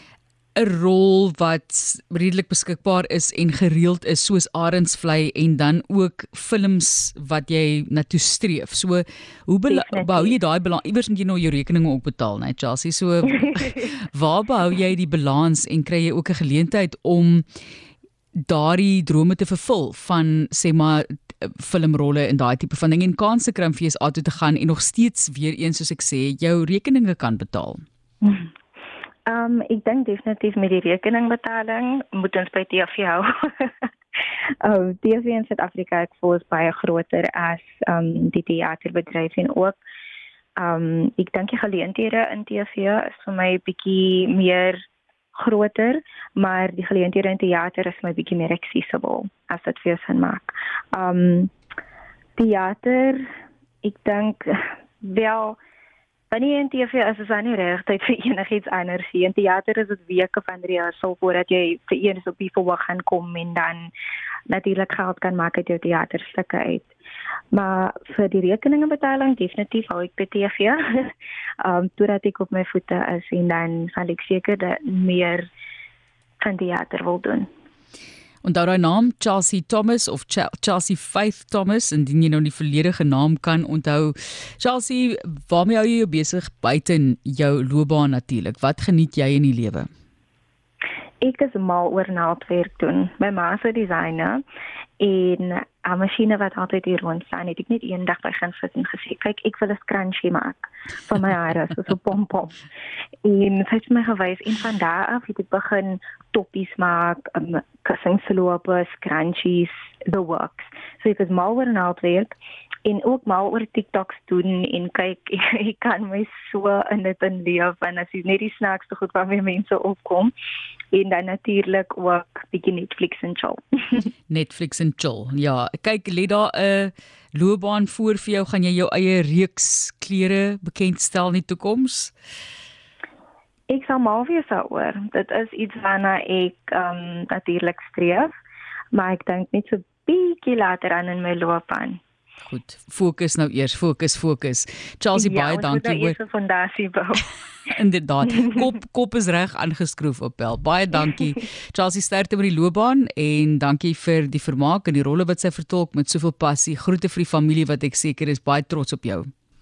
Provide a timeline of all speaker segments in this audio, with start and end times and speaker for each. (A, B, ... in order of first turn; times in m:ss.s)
0:00.6-0:17.4 A
0:09.7-0:10.4 B
0:18.5-0:27.8 A
0:28.2-0:28.5 B
0:29.3-0:33.9 B
0:34.6-0:39.8 B
0:40.6-0:44.8 B
0:45.4-0:51.5 B
0:52.4-0:53.3 B
0:53.8-0:55.6 B
0:56.3-1:03.9 B
1:04.5-1:06.9 B
1:07.5-1:15.5 B
1:16.4-1:17.5 B
1:18.4-1:29.9 A
1:31.2-1:34.4 B
1:35.0-1:42.6 B
1:43.2-1:52.3 B
1:52.8-2:00.3 B
2:00.9-2:04.1 B
2:04.3-2:12.1 A
2:13.7-2:18.3 B
2:18.9-2:22.0 B
2:22.4-2:26.2 A
2:25.1-2:27.2 B
2:27.7-2:39.3 A